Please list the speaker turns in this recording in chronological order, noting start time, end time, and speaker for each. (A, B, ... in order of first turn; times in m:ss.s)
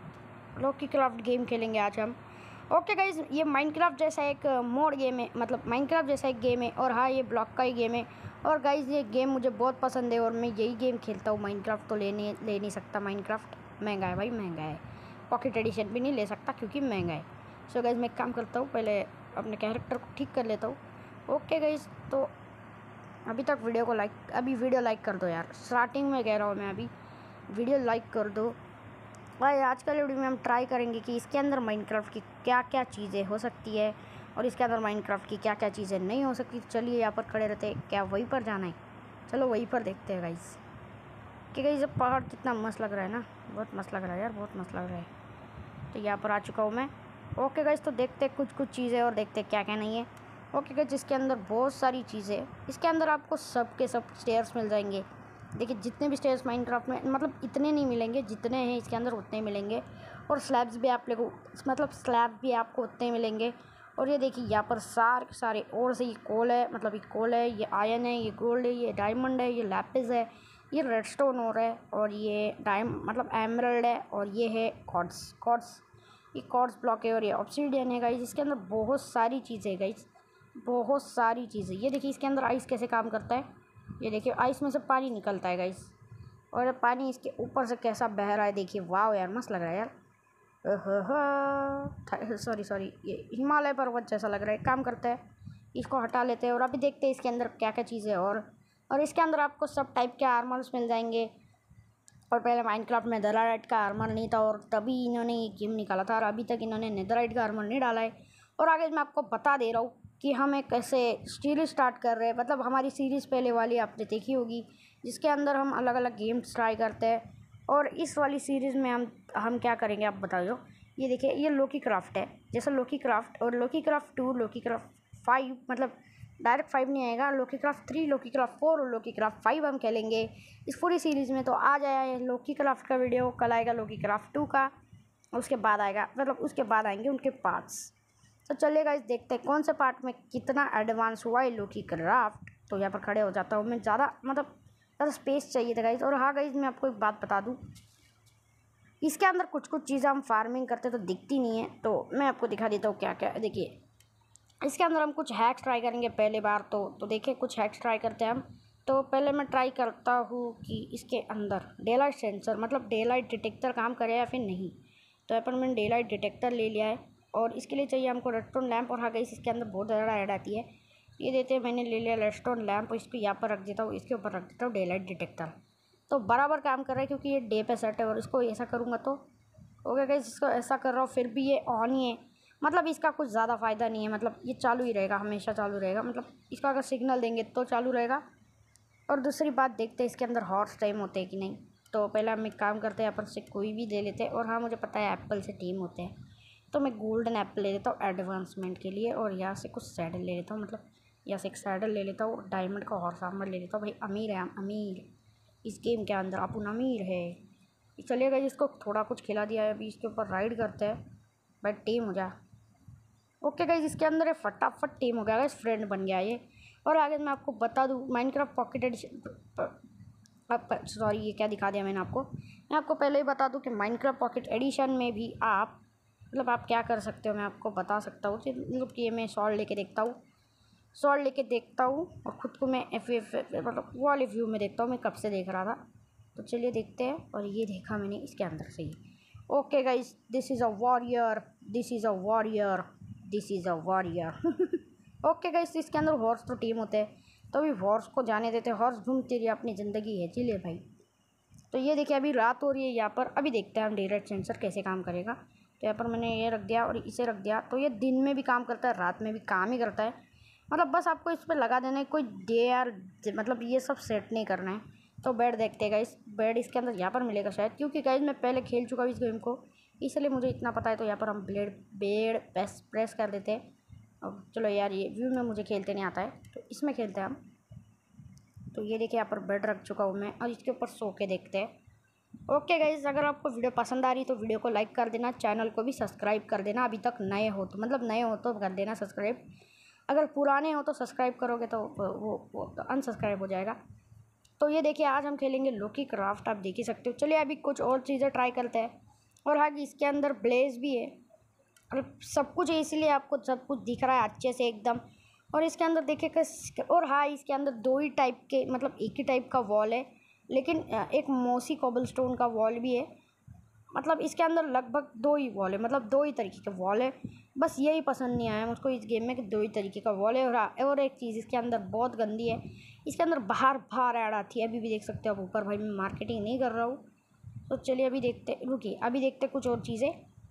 0:00.6-0:02.2 A
0:02.7-0:20.8 A
0:21.3-0:22.3 A
0:23.3-0:26.9 A
0:27.5-0:28.6 A
0:29.4-0:40.6 A
0:41.5-0:45.1 A
0:45.9-1:15.8 A
1:16.3-1:23.5 A
1:24.0-1:25.9 A
1:26.5-1:29.9 A
1:30.6-1:35.2 A
1:35.7-1:41.3 A
1:42.3-2:14.7 A
2:15.3-2:17.9 A
2:18.5-2:24.5 A
2:25.0-2:27.6 A
2:29.0-2:33.7 A
2:34.6-2:44.8 A
2:45.3-2:50.7 A
2:51.2-2:55.5 A
2:56.1-2:59.2 A
2:59.8-3:08.2 A
3:09.1-3:16.1 A
3:16.7-3:25.1 A
3:25.6-3:27.4 A
3:28.0-3:31.0 A
3:31.6-3:32.3 A
3:33.4-3:39.8 A
3:40.5-3:45.8 A
3:46.3-3:50.2 A
3:50.9-3:55.8 A
3:56.4-3:59.0 A
3:59.5-4:10.8 A
4:11.7-4:20.2 A
4:20.7-4:33.6 A
4:34.2-4:37.4 A
4:38.7-4:41.7 A
4:42.5-4:49.4 A
4:50.1-4:53.8 A
4:54.6-4:58.9 A
4:59.5-5:01.2 A
5:01.9-5:05.0 A
5:05.5-5:13.1 A
5:13.9-5:27.0 A
5:27.7-5:30.2 A